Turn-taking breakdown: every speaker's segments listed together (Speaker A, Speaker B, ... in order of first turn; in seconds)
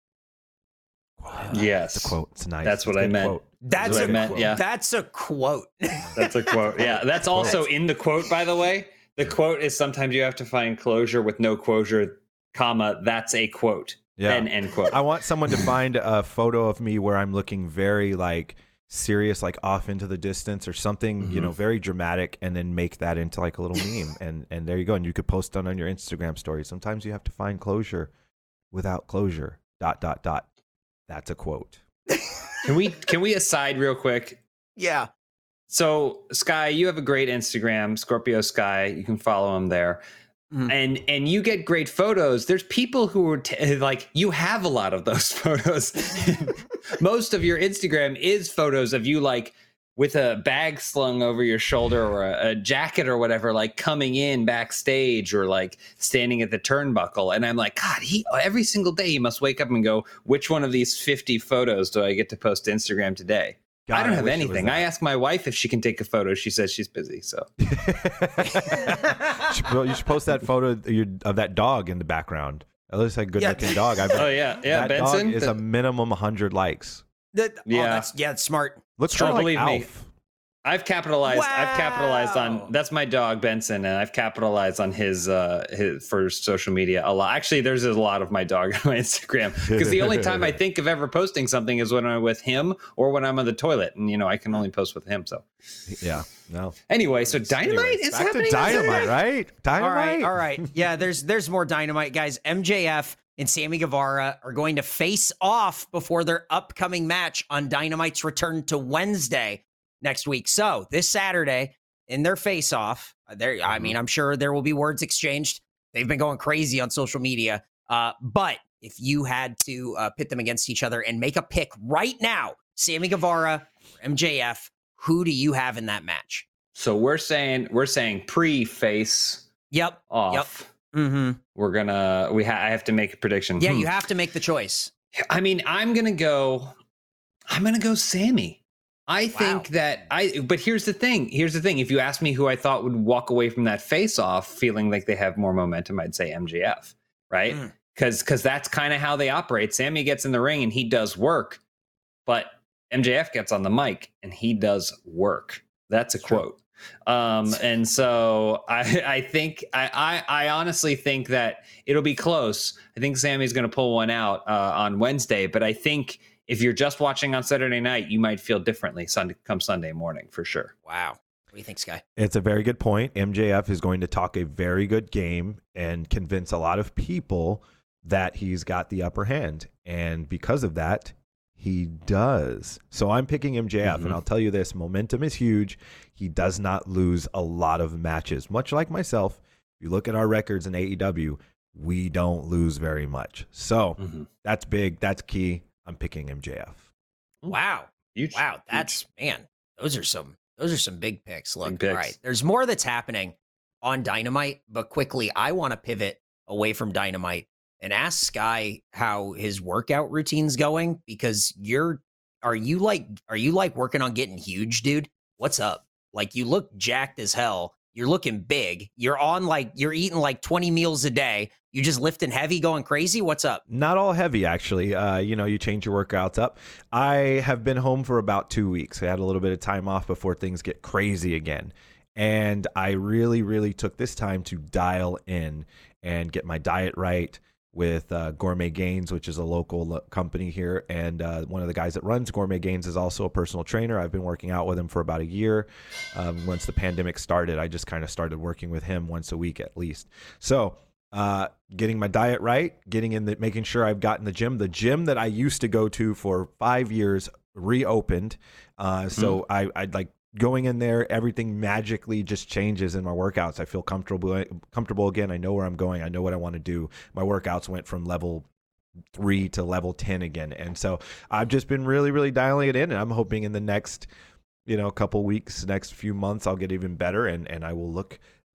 Speaker A: 1.2-4.6, 14.2-28.1, 28.7-30.5, 31.1-31.8, 63.9-64.8, 67.6-77.0, 79.0-80.1, 89.7-90.5, 95.9-100.3, 172.2-196.8, 223.7-268.5, 269.1-274.1, 274.7-278.2
Speaker B: 1.5-4.6, 6.2-15.7, 21.2-21.5, 32.6-34.4, 35.7-40.0, 40.7-67.5, 74.1-75.6, 77.7-78.1, 79.1-79.9, 80.7-95.5, 96.9-99.2, 126.8-129.5, 130.1-130.7, 131.6-133.9, 135.3-136.8, 137.5-151.6, 152.3-170.7, 183.8-184.2, 194.0-194.3, 198.2-198.9, 201.7-202.1
Speaker C: 3.6-6.7, 34.8-35.1, 73.4-74.2, 77.3-79.4, 81.2-82.7, 98.5-99.1, 99.8-126.5, 129.7-131.4, 133.6-134.9, 139.3-139.7, 170.9-172.0, 197.5-223.6